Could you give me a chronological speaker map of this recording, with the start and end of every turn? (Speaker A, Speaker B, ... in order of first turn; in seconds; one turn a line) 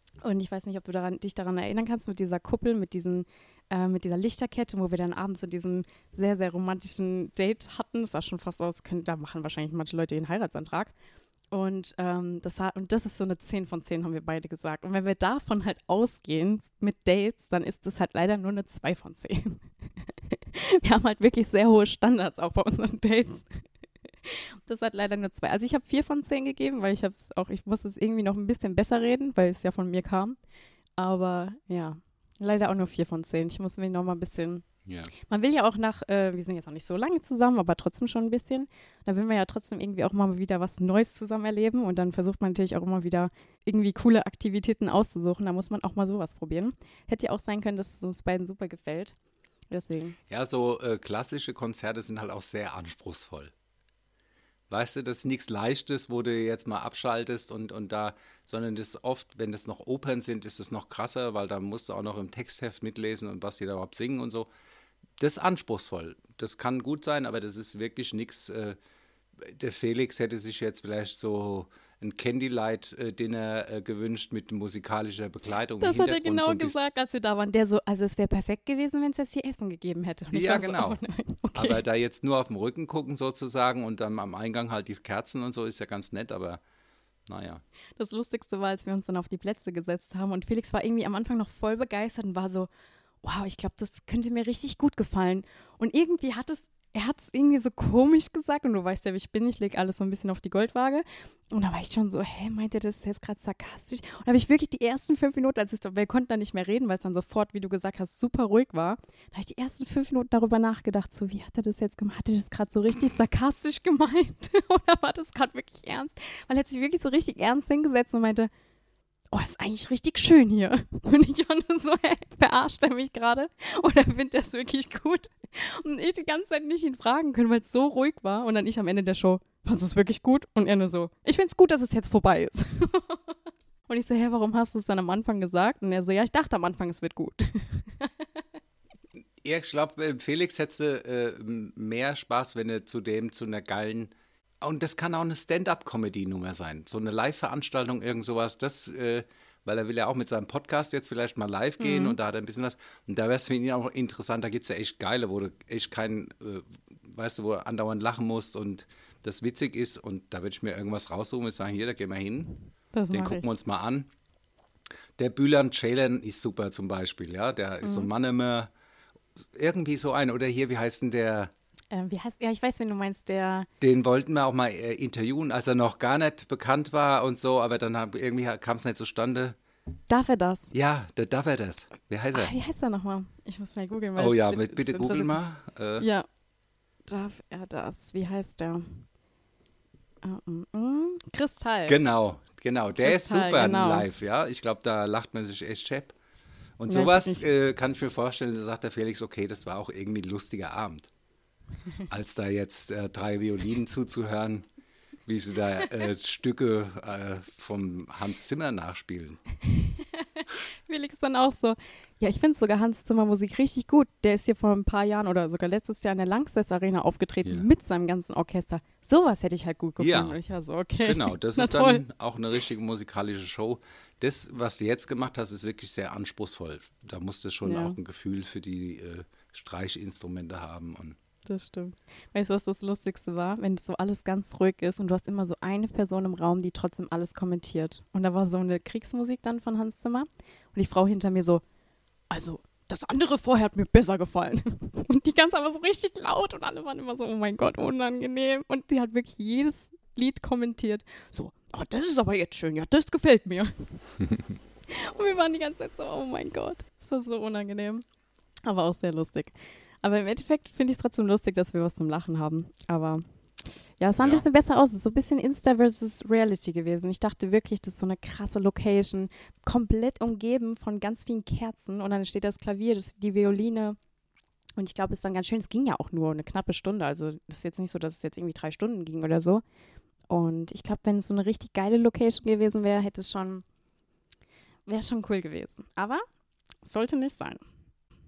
Speaker A: 0.2-10.9
Speaker A: 11.5-19.6
Speaker A: 20.3-23.6
Speaker A: 24.2-30.4
Speaker A: 31.0-34.6
Speaker B: 34.9-35.1
Speaker A: 35.3-49.1
Speaker A: 49.7-50.2
Speaker B: 50.3-53.5
Speaker B: 54.7-64.5
Speaker B: 65.2-68.8
Speaker B: 69.4-76.8
Speaker A: 75.8-81.8
Speaker B: 80.3-81.0
Speaker B: 81.5-86.6
Speaker B: 87.3-87.6
Speaker A: 88.0-92.7
Speaker A: 93.2-118.5
Speaker A: 119.3-133.3
Speaker A: 133.9-138.3
Speaker B: 139.4-164.1
Speaker A: 151.8-152.2
Speaker A: 162.9-163.5
Speaker B: 165.2-168.7
Speaker A: 167.8-168.1
Speaker B: 169.4-171.5
Speaker A: 171.9-173.7
Speaker B: 173.8-179.6
Speaker A: 180.1-180.7
Speaker B: 180.7-182.5
Speaker A: 182.3-185.4
Speaker B: 184.2-186.1
Speaker A: 186.0-186.3
Speaker A: 187.1-189.1
Speaker A: 190.2-192.0
Speaker B: 191.9-196.2
Speaker A: 193.0-194.1
Speaker B: 196.8-201.1
Speaker A: 196.9-197.4
Speaker B: 202.1-204.7
Speaker B: 205.3-209.4
Speaker A: 209.8-222.0
Speaker B: 220.0-220.4
Speaker B: 221.0-231.2
Speaker A: 227.6-228.0
Speaker A: 231.5-241.6
Speaker A: 242.3-254.0
Speaker A: 254.9-258.0
Speaker A: 258.7-274.0
Speaker A: 274.8-279.6
Speaker A: 280.3-283.6
Speaker A: 284.9-286.2
Speaker A: 286.9-287.6